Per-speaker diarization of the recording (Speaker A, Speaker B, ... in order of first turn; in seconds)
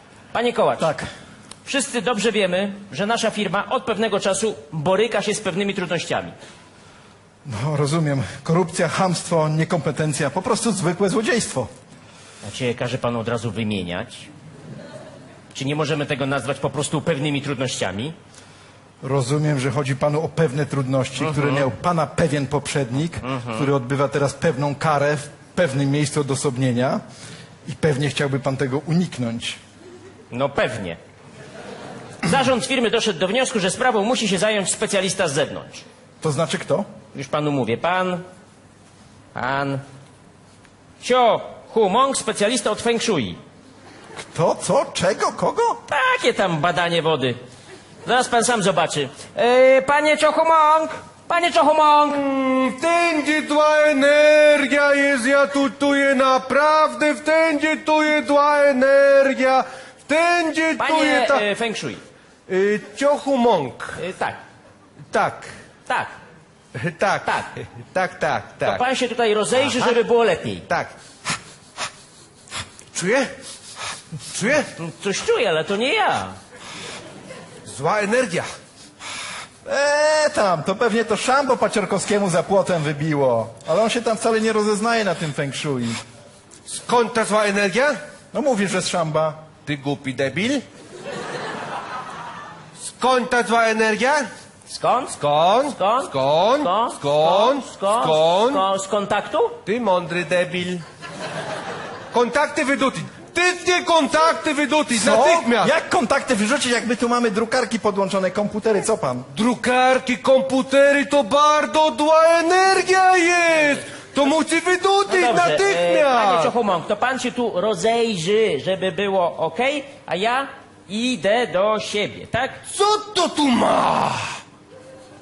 Speaker A: 0.3-0.9, 1.6-6.3, 12.4-14.3, 15.5-18.2, 21.2-21.7, 23.2-23.7, 30.3-31.0, 32.2-35.8, 37.1-38.2, 39.3-39.8, 41.0-43.4, 45.9-47.4, 48.0-52.2, 60.8-62.0, 64.0-64.4, 65.9-66.1, 68.6-70.7, 74.8-76.4, 94.7-99.6, 115.1-122.6
Speaker B: 0.8-1.1, 7.4-11.7, 19.0-27.0, 27.7-29.6, 36.2-36.9, 44.2-45.8, 79.6-86.0, 88.3-89.4, 104.9-109.3
Speaker C: 52.1-61.4, 62.5-64.0, 65.1-65.5, 66.8-68.8, 69.7-70.0, 72.9-73.3, 74.3-74.7, 77.7-78.5, 86.7-88.0, 89.7-90.6, 92.8-94.3, 95.2-98.6, 99.7-100.8, 102.1-105.8, 109.3-116.5, 122.7-124.3